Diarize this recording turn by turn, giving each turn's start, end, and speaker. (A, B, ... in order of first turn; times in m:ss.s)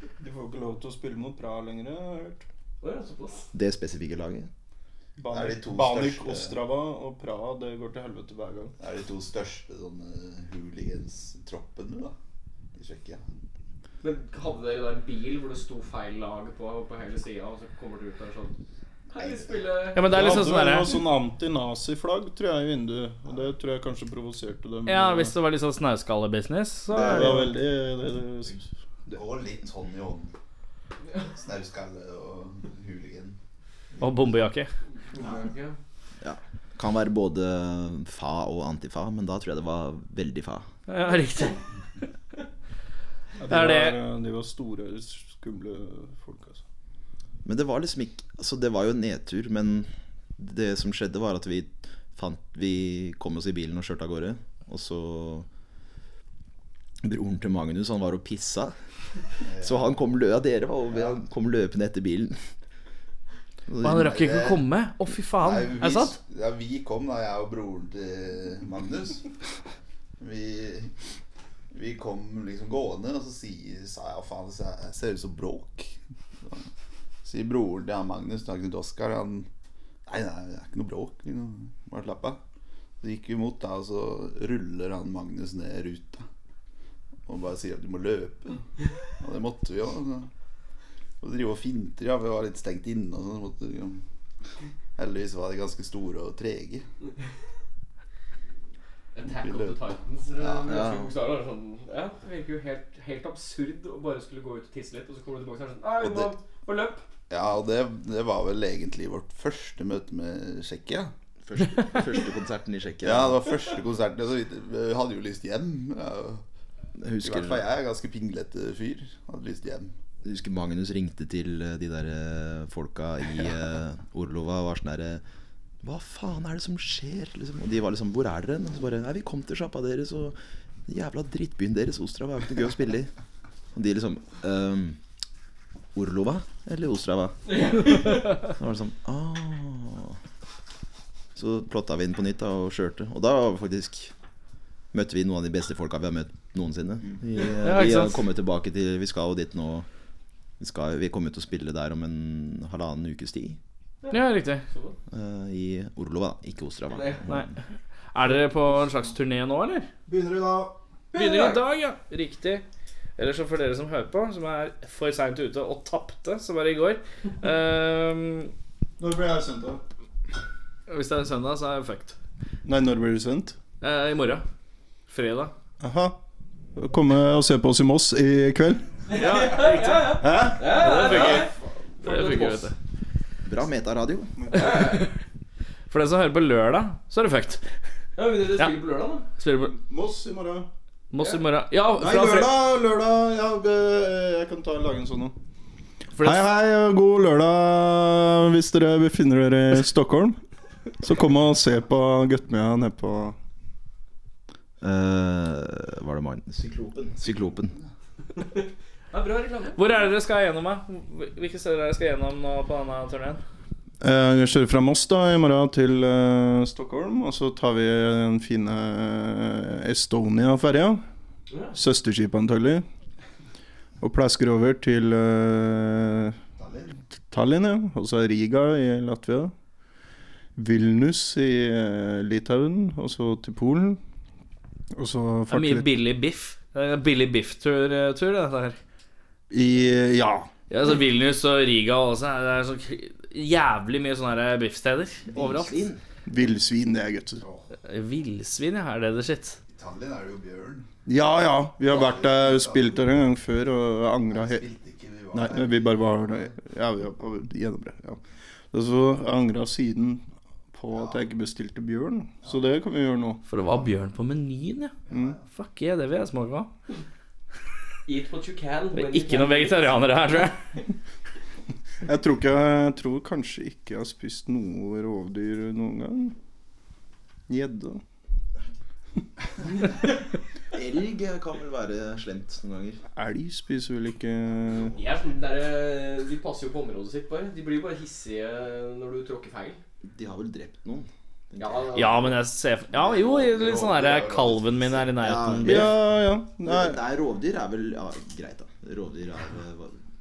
0:00.2-0:02.4 A
0:02.8-0:03.5 B
0:03.5-0:04.5 C
0:05.2-0:08.7 A
0:05.3-0:06.6 D
0:08.8-0:12.1 D
0:12.7-0:13.2 D
0:14.0-0:18.6 B
0:19.1-0:20.3 B
0:19.2-0:19.6 D
0:19.9-0:21.0 E
0:20.0-0:25.3 A
0:24.8-0:27.5 E
0:26.9-0:29.2 A
0:27.0-0:27.4 C
0:29.1-0:30.3 D
0:31.2-0:33.4 D
0:34.0-0:34.7 E
0:35.1-0:35.8 B
0:36.2-0:40.6 C
0:40.9-0:41.6 E
0:43.4-0:46.6 A
0:43.5-0:44.0 E
0:47.4-0:55.5 C
0:57.0-0:58.7 C
0:59.4-1:00.1 D
0:59.6-1:02.4 C
1:00.9-1:01.2 D
1:03.7-1:04.0 C
1:03.8-1:06.2 E
1:03.9-1:04.6 D
1:05.4-1:09.3 D
1:10.2-1:10.9 D
1:11.7-1:16.7 D
1:17.2-1:19.5 D
1:20.0-1:22.4 D
1:23.0-1:26.3 D
1:27.2-1:28.6 D
1:29.2-1:30.3 D
1:31.2-1:34.0 D
1:35.0-1:36.9 D
1:39.1-1:47.0 B
1:39.3-1:39.8 D
1:40.4-1:41.0 D
1:46.0-1:46.3 D
1:47.3-1:51.1 D
1:51.4-1:53.4 C
1:53.0-1:56.4 D
1:57.0-1:57.6 C
1:57.2-1:59.9 D
2:00.2-2:05.2 C
2:05.8-2:13.1 C
2:13.7-2:15.0 C
2:15.9-2:20.2 C
2:17.6-2:18.0 B
2:21.4-2:24.1 C
2:24.9-2:29.8 C
2:27.6-2:28.2 E
2:30.6-2:33.6 C
2:34.0-2:35.0 B
2:34.1-2:34.6 E
2:35.1-2:37.5 C
2:36.9-2:37.2 B
2:38.1-2:39.9 E
2:40.1-2:40.8 A
2:41.1-2:41.6 B
2:41.1-2:42.6 E
2:43.2-2:48.5 E
2:49.0-2:49.8 A
2:50.9-2:52.2 E
2:52.6-2:53.6 A
2:53.8-2:54.4 E
2:55.1-2:55.5 E
2:55.8-2:56.2 A
2:56.8-2:58.9 A
2:59.1-3:02.7 B
2:59.1-3:01.5 E
3:00.2-3:01.7 A
3:02.0-3:02.7 E
3:03.4-3:04.3 C
3:04.4-3:04.8 A
3:04.5-3:05.1 E
3:05.9-3:07.6 E
3:08.2-3:09.3 B
3:09.4-3:09.7 E
3:09.6-3:10.7 A
3:11.1-3:12.6 E
3:12.0-3:15.4 A
3:16.1-3:16.5 E
3:16.2-3:20.4 A
3:21.0-3:23.4 A
3:24.8-3:27.7 C
3:28.6-3:29.9 B
3:29.7-3:33.4 E
3:34.0-3:41.0 A
3:41.5-3:41.8 B
3:41.7-3:42.8 A
3:44.0-3:46.4 A
3:46.6-3:47.0 D
3:47.3-3:49.5 A
3:50.6-3:54.0 A
3:54.9-3:55.9 A
3:55.5-3:58.8 E
3:59.5-4:00.5 A
4:00.7-4:05.9 E
4:05.3-4:06.0 C
4:06.2-4:07.4 A
4:07.9-4:09.6 E
4:09.7-4:10.9 D
4:11.0-4:14.6 A
4:11.9-4:13.0 D
4:14.3-4:16.5 D
4:15.3-4:18.2 A
4:18.7-4:23.4 A
4:23.5-4:25.0 E
4:25.1-4:25.4 A
4:25.1-4:25.4 D
4:25.5-4:26.7 E
4:28.0-4:30.0 B
4:28.9-4:30.7 E
4:32.0-4:36.3 A
4:37.5-4:38.0 A
4:40.7-4:43.0 C
4:43.1-4:44.9 A
4:44.9-4:49.8 B
4:50.0-4:52.3 C
4:51.6-4:52.3 B
4:51.9-4:55.9 E
4:52.9-4:55.1 D
4:55.2-5:00.0 C
4:55.6-4:57.0 A